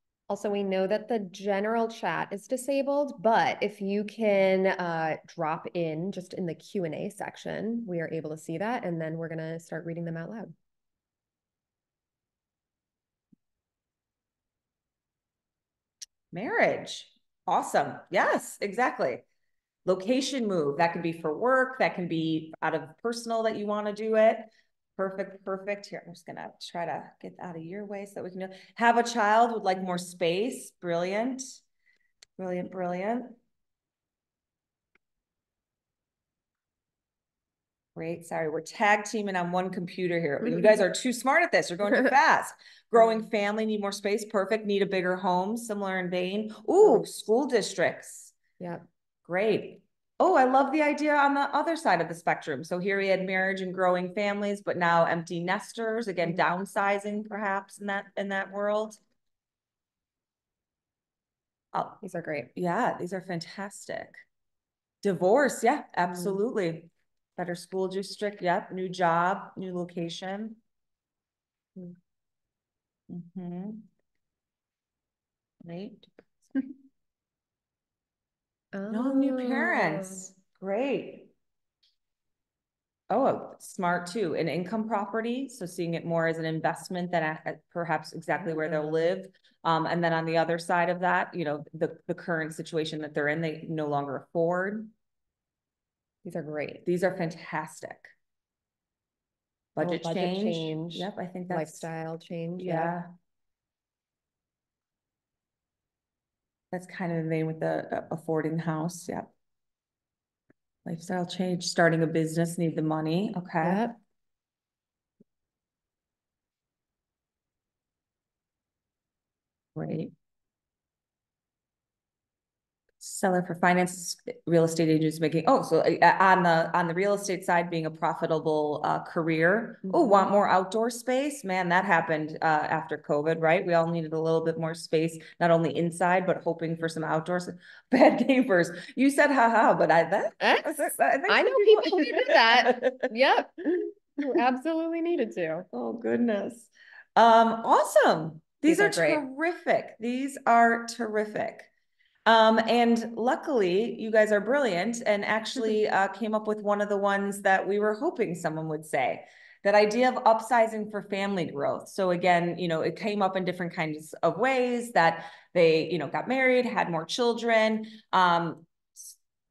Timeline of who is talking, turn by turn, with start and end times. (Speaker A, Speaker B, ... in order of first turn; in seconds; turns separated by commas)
Speaker A: 0.3-10.5, Speaker B: 16.3-19.2, Speaker B: 19.9-31.6, Speaker B: 32.4-33.4, Speaker B: 38.0-48.3, Speaker A: 40.4-40.7, Speaker B: 49.2-59.0, Speaker B: 61.7-62.0, Speaker A: 62.0-62.5, Speaker B: 62.5-64.2, Speaker B: 65.0-70.6, Speaker A: 66.1-66.4, Speaker B: 73.1-73.8, Speaker B: 75.6-76.7, Speaker A: 78.7-80.2, Speaker B: 78.9-81.3, Speaker B: 83.1-94.9, Speaker A: 88.4-89.0, Speaker A: 96.2-96.8, Speaker B: 96.8-98.1, Speaker B: 99.8-101.9, Speaker A: 99.8-102.9, Speaker B: 102.6-103.1, Speaker B: 106.7-109.3, Speaker B: 110.8-113.8, Speaker A: 113.6-114.0, Speaker B: 119.8-120.1, Speaker B: 123.0-143.1, Speaker A: 129.9-130.3, Speaker A: 140.4-145.7, Speaker B: 145.7-151.7, Speaker A: 148.7-149.2, Speaker B: 152.2-169.1